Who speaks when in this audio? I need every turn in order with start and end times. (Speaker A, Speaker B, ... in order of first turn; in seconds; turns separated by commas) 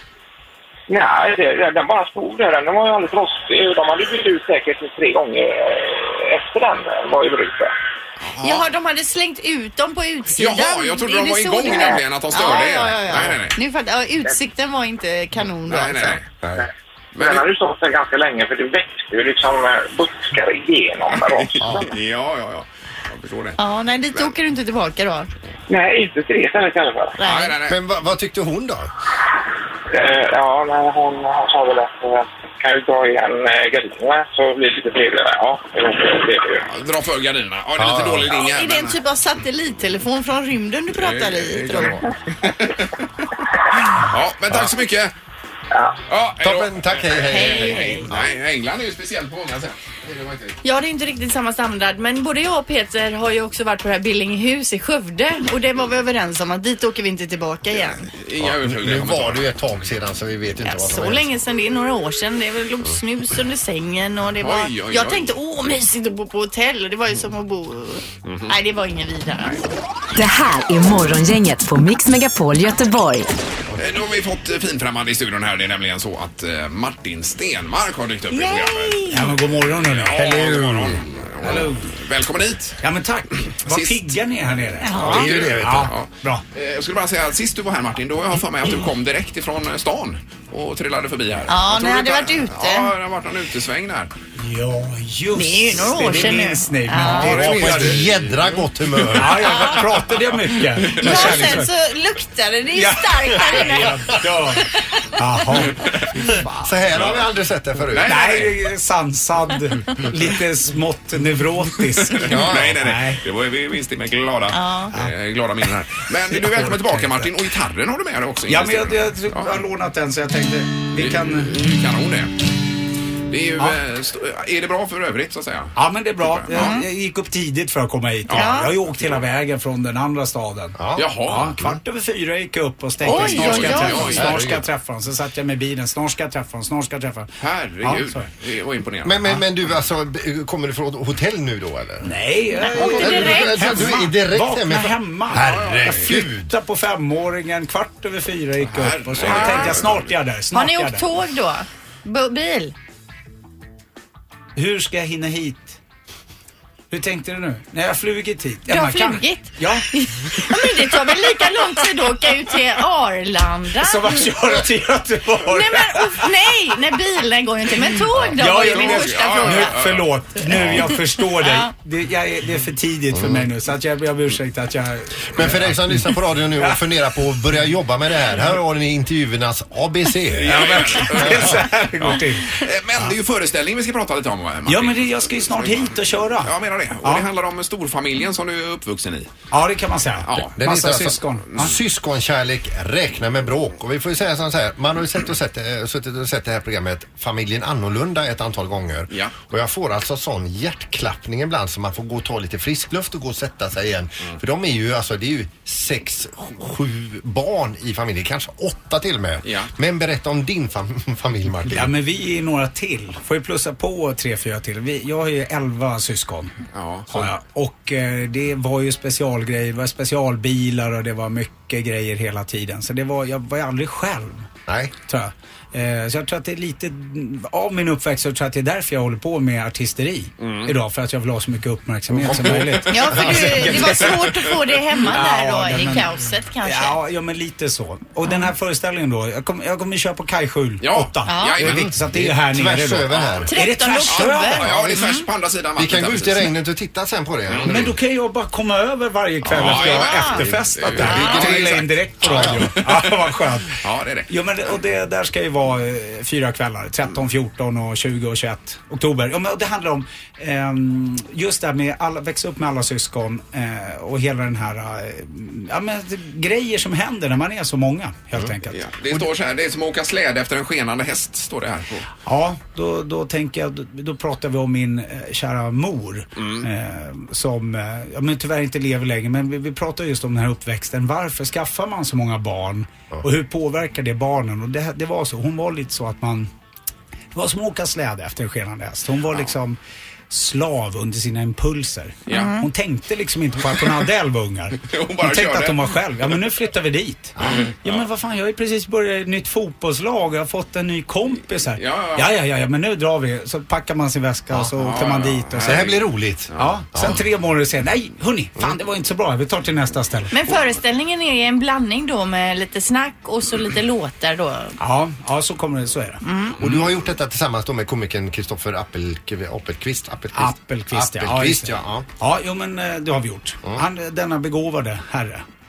Speaker A: 0.9-7.7, Speaker B: 8.2-8.7, Speaker C: 8.4-16.2, Speaker B: 10.4-13.5, Speaker B: 15.7-16.2, Speaker A: 16.6-21.9, Speaker B: 17.1-17.4, Speaker B: 21.4-23.6, Speaker D: 21.6-21.9, Speaker C: 23.6-25.3, Speaker A: 25.7-27.2, Speaker C: 27.2-27.5, Speaker B: 27.2-27.8, Speaker D: 27.6-28.9, Speaker A: 29.9-36.6, Speaker B: 36.7-39.0, Speaker D: 37.8-38.4, Speaker C: 38.4-42.0, Speaker B: 40.9-43.2, Speaker B: 43.9-45.1, Speaker A: 45.7-46.0, Speaker B: 46.1-50.6, Speaker D: 46.4-48.3, Speaker C: 47.3-48.1, Speaker C: 50.6-58.0, Speaker B: 58.0-59.5, Speaker D: 58.4-61.3, Speaker C: 60.6-69.6, Speaker B: 64.4-65.3, Speaker B: 68.2-68.5, Speaker E: 70.1-73.3, Speaker B: 73.8-79.2, Speaker C: 78.3-79.3, Speaker F: 79.1-80.6, Speaker B: 79.8-82.8, Speaker D: 80.2-81.5, Speaker F: 81.4-81.9, Speaker F: 82.8-86.4, Speaker B: 83.5-84.2, Speaker C: 84.8-85.3, Speaker B: 84.9-94.1, Speaker D: 85.0-85.9, Speaker C: 91.5-92.9, Speaker F: 94.4-98.0, Speaker C: 95.3-97.4, Speaker B: 97.0-98.6, Speaker D: 97.2-99.7, Speaker F: 99.1-101.7, Speaker C: 99.5-99.8, Speaker B: 100.8-101.5, Speaker C: 100.9-104.8, Speaker F: 102.8-106.7, Speaker D: 106.6-108.1, Speaker B: 106.9-107.3, Speaker B: 107.9-108.6, Speaker F: 108.0-113.2, Speaker B: 112.0-119.6, Speaker D: 112.3-112.8, Speaker C: 114.5-114.9, Speaker F: 116.3-117.3, Speaker F: 118.5-121.5, Speaker B: 120.9-122.3, Speaker B: 123.3-126.8, Speaker F: 125.7-138.3, Speaker C: 126.5-126.8, Speaker B: 128.3-129.2, Speaker C: 128.3-128.7, Speaker D: 130.8-131.8, Speaker B: 131.0-131.5, Speaker C: 133.0-134.2, Speaker B: 133.1-134.5, Speaker D: 134.0-134.6, Speaker B: 137.4-139.4, Speaker D: 139.0-142.1, Speaker F: 142.0-151.0, Speaker C: 142.6-143.7, Speaker D: 142.9-146.5, Speaker B: 145.3-146.1, Speaker B: 148.6-150.1, Speaker C: 149.2-149.8, Speaker C: 150.5-152.7, Speaker F: 154.6-155.8, Speaker F: 156.9-159.9, Speaker C: 158.7-164.3, Speaker F: 160.6-161.1, Speaker F: 163.8-166.3, Speaker C: 165.4-169.8, Speaker F: 168.4-176.8, Speaker B: 168.6-170.9, Speaker C: 170.5-171.7, Speaker D: 173.1-173.5, Speaker D: 175.3-181.5, Speaker B: 180.3-189.3, Speaker F: 180.5-183.1, Speaker F: 184.7-187.3, Speaker F: 189.5-191.7, Speaker B: 190.2-190.6, Speaker D: 190.5-211.9, Speaker B: 209.4-209.7, Speaker F: 211.7-216.6, Speaker B: 216.7-217.2, Speaker F: 217.1-224.5, Speaker D: 224.7-224.9, Speaker F: 225.1-234.5, Speaker B: 230.4-230.7, Speaker B: 232.1-234.2, Speaker D: 232.3-232.6, Speaker C: 232.9-237.0, Speaker F: 235.0-244.7, Speaker B: 240.8-241.9, Speaker C: 241.2-241.6, Speaker D: 241.6-243.5, Speaker B: 243.1-243.5, Speaker C: 243.5-245.2, Speaker B: 244.0-246.5, Speaker D: 245.8-247.9, Speaker B: 247.5-247.8, Speaker F: 247.7-268.9, Speaker B: 249.4-253.2, Speaker C: 249.9-250.4, Speaker D: 250.6-252.7, Speaker C: 251.0-251.5, Speaker B: 253.8-254.3, Speaker B: 268.7-272.1, Speaker F: 272.2-286.5, Speaker B: 276.4-276.6, Speaker F: 287.3-289.8, Speaker F: 290.3-305.9, Speaker B: 292.3-292.6, Speaker C: 292.3-292.7, Speaker B: 294.8-296.4, Speaker D: 297.4-297.6, Speaker B: 297.5-298.0, Speaker B: 301.8-302.3, Speaker B: 304.8-306.8, Speaker D: 305.6-307.2, Speaker F: 306.6-310.3, Speaker C: 310.3-314.8, Speaker F: 314.8-316.2, Speaker C: 316.2-316.6, Speaker D: 316.6-322.1, Speaker F: 320.3-325.4